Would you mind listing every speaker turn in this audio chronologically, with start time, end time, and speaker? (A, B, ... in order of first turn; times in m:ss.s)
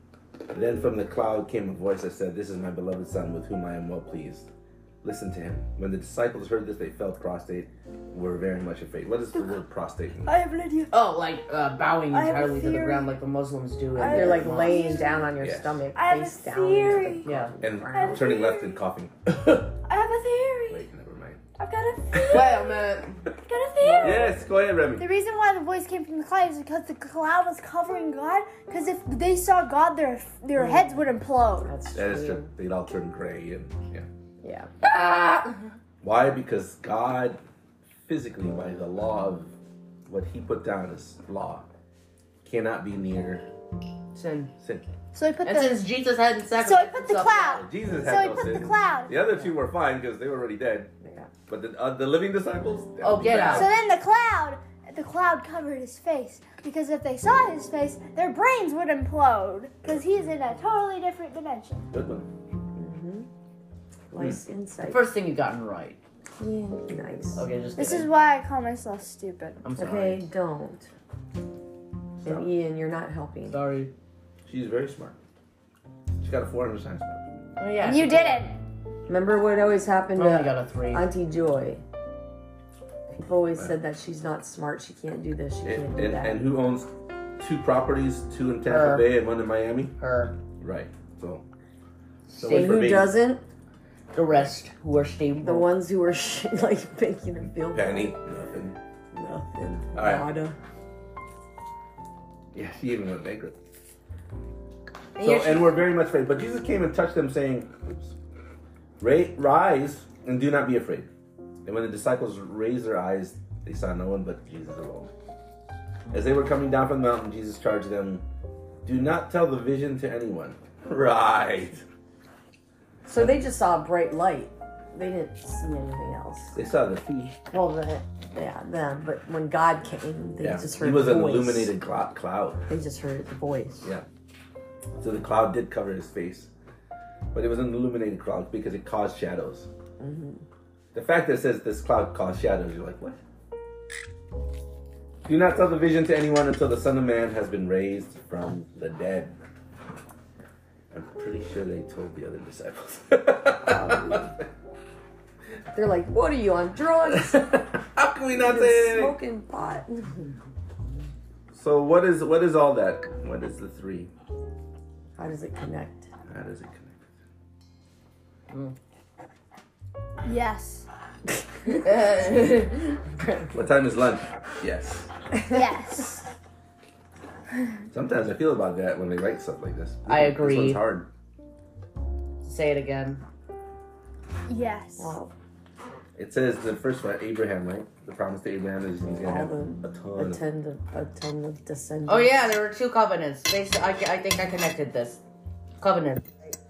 0:00.5-0:04.5 A
0:05.0-0:10.4 A
0:10.3-0:10.9 B
0:10.9-0:15.0 C
0:12.1-0:13.1 B
0:14.0-0:15.3 B
0:14.1-0:18.3 D
0:15.4-0:15.8 A
0:15.9-0:17.3 B
0:17.2-0:17.6 C
0:17.6-0:19.8 A
0:17.9-0:18.8 B
0:19.8-0:20.8 B
0:20.7-0:21.4 A
0:21.6-0:22.8 B
0:22.3-0:23.2 C
0:23.4-0:24.2 B
0:23.8-0:24.4 D
0:24.0-0:25.1 A
0:25.0-0:31.8 B
0:30.5-0:32.5 D
0:31.9-0:34.1 A
0:34.4-0:34.7 D
0:34.8-0:35.7 C
0:36.0-0:37.4 A
0:38.1-0:39.5 A
0:40.1-0:41.7 A
0:42.4-0:43.5 A
0:44.1-0:44.5 C
0:44.6-0:44.9 A
0:45.1-0:45.8 B
0:45.4-0:47.7 C
0:46.6-0:49.1 B
0:47.5-0:50.9 A
0:51.0-0:51.3 D
0:51.5-0:53.7 A
0:53.0-0:53.7 C
0:53.5-1:01.9 B
1:01.9-1:02.3 A
1:02.7-1:03.3 D
1:04.1-1:05.1 D
1:04.9-1:06.0 C
1:06.4-1:07.5 D
1:07.3-1:08.1 C
1:07.8-1:09.6 B
1:09.6-1:10.2 C
1:09.8-1:10.9 D
1:12.2-1:12.5 A
1:12.2-1:13.6 D
1:13.5-1:13.9 C
1:14.5-1:15.2 A
1:16.2-1:17.2 A
1:17.6-1:18.5 C
1:17.8-1:18.6 B
1:19.1-1:21.8 D
1:20.2-1:21.1 C
1:23.1-1:26.4 D
1:25.6-1:30.0 A
1:28.7-1:29.1 C
1:30.0-1:30.4 C
1:30.6-1:31.4 A
1:32.3-1:32.9 C
1:32.4-1:33.2 A
1:32.5-1:33.4 D
1:34.1-1:35.7 C
1:35.4-1:38.2 D
1:37.7-1:38.8 A
1:39.1-1:40.6 D
1:40.0-1:40.3 A
1:42.5-1:43.6 A
1:45.2-1:45.8 C
1:45.2-1:48.2 A
1:49.0-1:51.1 A
1:51.6-1:55.1 A
1:56.1-1:58.2 A
1:58.8-2:01.8 A
2:03.0-2:06.6 D
2:03.1-2:03.4 A
2:06.5-2:07.4 A
2:07.5-2:11.7 D
2:10.4-2:12.6 A
2:12.7-2:13.9 D
2:15.0-2:16.5 A
2:17.3-2:19.7 A
2:20.0-2:20.4 D
2:20.9-2:23.2 A
2:25.3-2:29.4 A
2:30.9-2:34.3 A
2:33.7-2:34.3 D
2:35.7-2:37.7 D
2:37.3-2:39.2 A
2:38.3-2:40.2 D
2:41.5-2:44.1 A
2:45.2-2:46.1 D
2:46.3-2:47.0 A
2:48.5-2:48.8 C
2:50.2-2:50.9 B
2:51.6-2:53.0 C
2:53.5-2:55.1 A
2:55.5-2:56.2 B
2:57.9-3:01.1 A
3:00.1-3:00.8 C
3:02.4-3:03.2 C
3:04.5-3:05.1 B
3:05.0-3:05.3 D
3:06.2-3:10.4 A
3:09.2-3:12.4 D
3:12.1-3:15.2 C
3:15.8-3:16.6 C